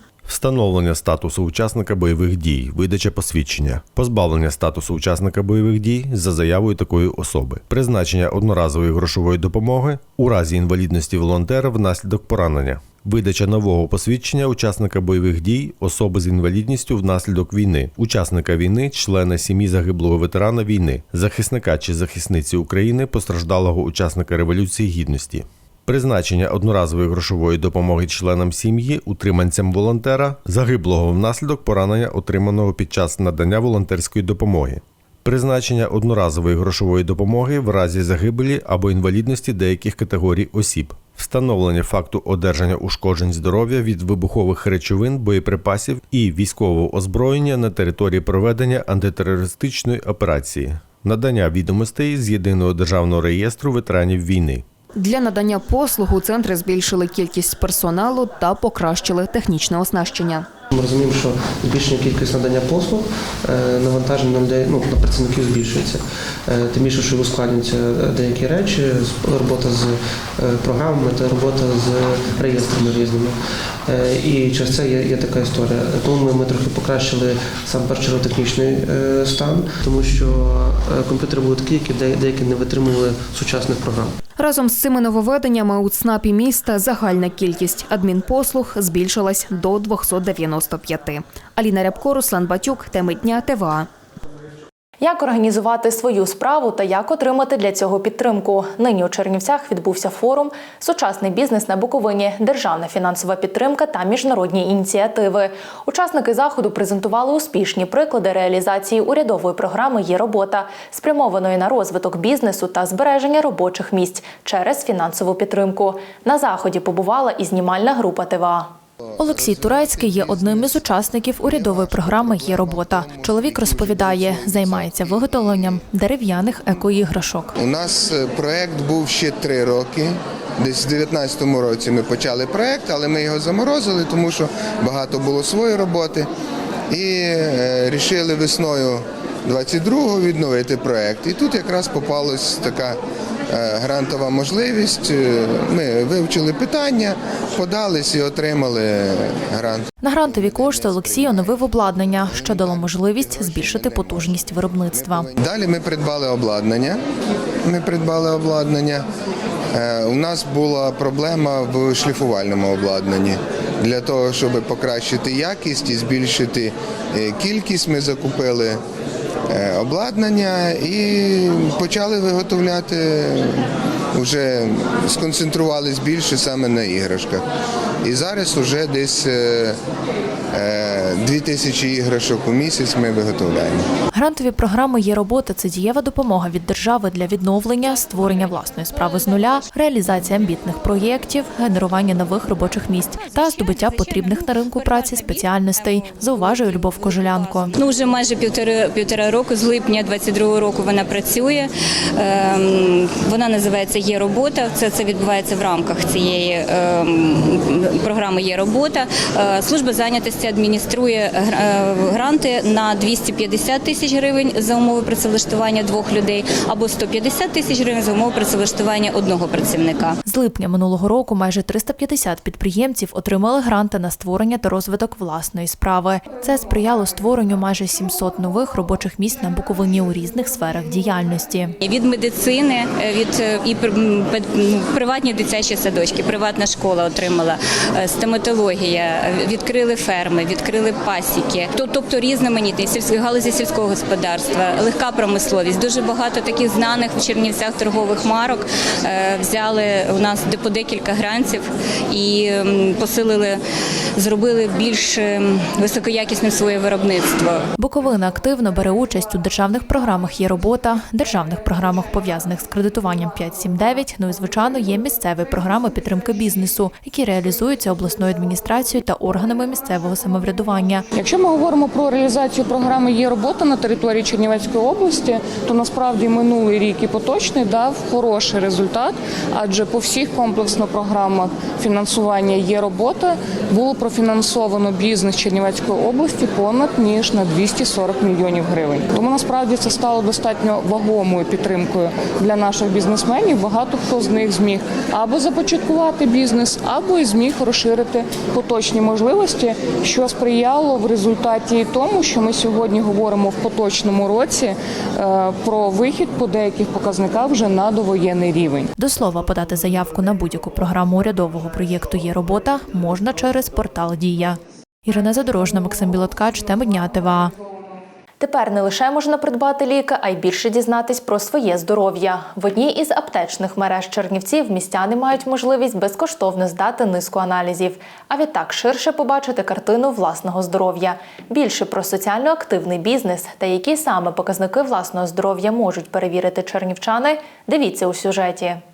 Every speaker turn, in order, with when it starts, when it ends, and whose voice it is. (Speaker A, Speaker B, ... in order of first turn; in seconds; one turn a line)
Speaker A: 0.3-54.6
Speaker B: 55.0-60.5
Speaker C: 60.7-66.0
Speaker C: 66.5-73.4
Speaker C: 73.9-84.1
Speaker B: 84.4-93.9
Speaker D: 95.0-127.5
Speaker E: 119.2-120.9
Speaker E: 121.4-125.3
Speaker E: 127.6-136.3
Speaker E: 136.9-143.0
Speaker E: 143.5-151.6
Speaker D: 150.0-155.3
Speaker E: 152.2-154.4
Speaker E: 154.9-157.0
Speaker E: 157.7-159.1
Speaker E: 159.8-168.8
Speaker E: 169.5-173.6
Speaker E: 174.2-177.4
Speaker E: 178.0-179.8
Speaker E: 180.5-183.9
Speaker D: 184.1-197.8
Speaker F: 193.2-220.2
Speaker D: 220.2-231.7
Speaker F: 231.8-253.6
Speaker F: 254.2-257.6
Speaker D: 257.8-271.1
Speaker G: 271.2-308.9
Speaker D: 309.0-317.5
Speaker D: 318.4-338.8